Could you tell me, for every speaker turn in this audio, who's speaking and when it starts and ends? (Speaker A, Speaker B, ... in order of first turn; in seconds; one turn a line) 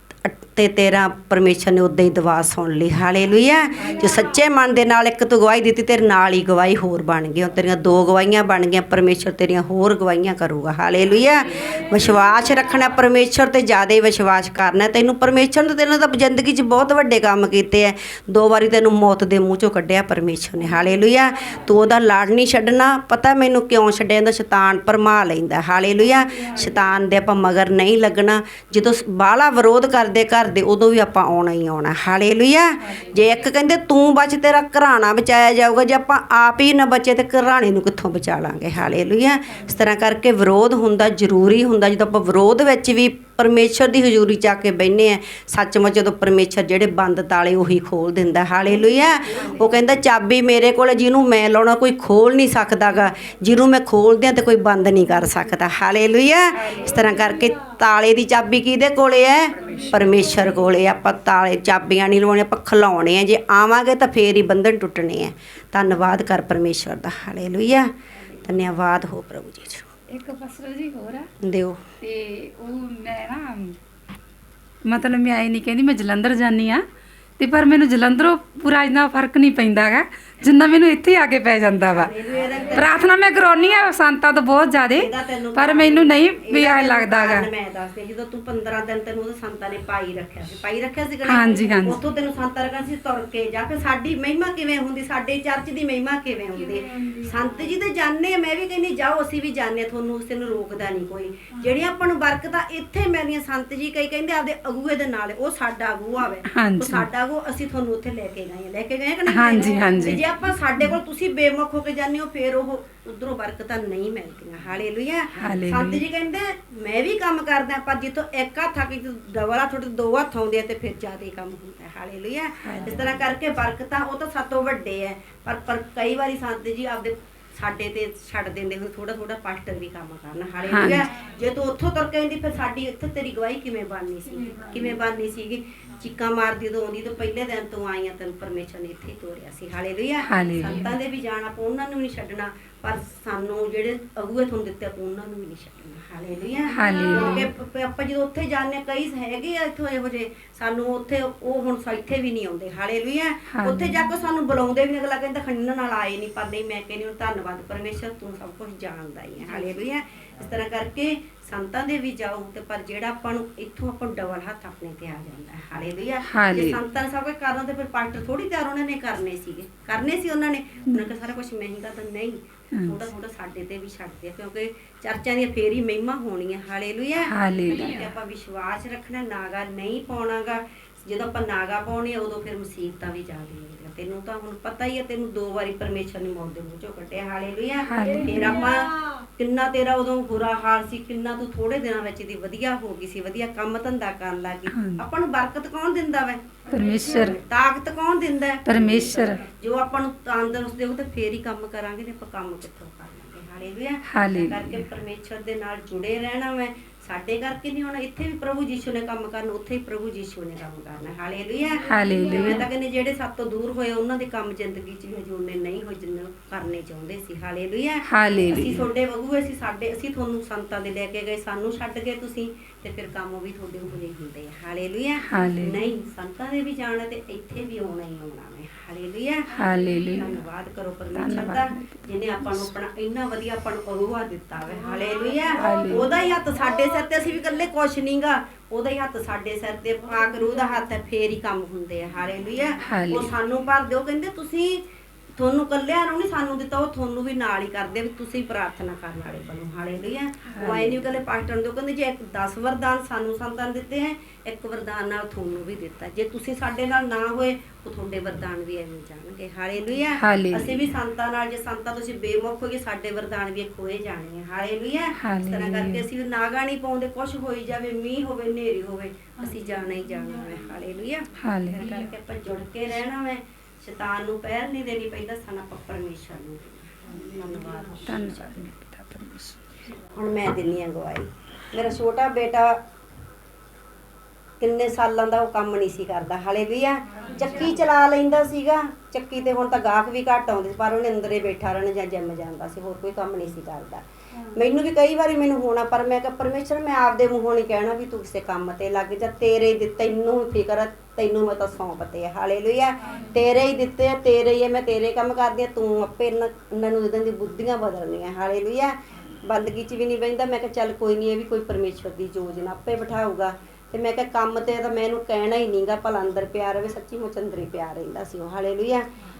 Speaker A: 0.2-67.9
Speaker A: 68.4-69.9
Speaker B: 70.1-71.3
Speaker A: 71.4-71.8
Speaker B: 72.0-73.8
Speaker B: 74.8-76.8
Speaker B: 77.4-82.1
Speaker A: 81.9-83.0
Speaker B: 82.7-87.5
Speaker A: 85.0-229.5
Speaker B: 91.2-92.0
Speaker B: 106.5-107.1
Speaker B: 109.3-110.2
Speaker B: 115.4-116.0
Speaker B: 122.6-123.0
Speaker B: 130.7-131.1
Speaker B: 140.3-140.9
Speaker B: 146.7-147.5
Speaker B: 153.5-153.9
Speaker B: 166.3-166.8
Speaker B: 172.7-173.0
Speaker B: 177.2-178.0
Speaker B: 187.9-188.6
Speaker B: 194.7-195.0
Speaker B: 196.7-197.4
Speaker B: 198.7-199.4
Speaker B: 204.1-204.8
Speaker B: 211.9-212.6
Speaker B: 218.1-218.8
Speaker B: 225.2-225.8
Speaker B: 229.6-230.3
Speaker A: 230.1-244.8
Speaker B: 231.1-232.7
Speaker B: 235.6-236.1
Speaker B: 242.8-243.3
Speaker A: 245.4-278.5
Speaker B: 250.5-251.0
Speaker B: 260.2-260.8
Speaker B: 265.2-266.1
Speaker B: 271.4-272.1
Speaker B: 278.1-279.6
Speaker A: 280.1-282.8
Speaker A: 284.6-319.0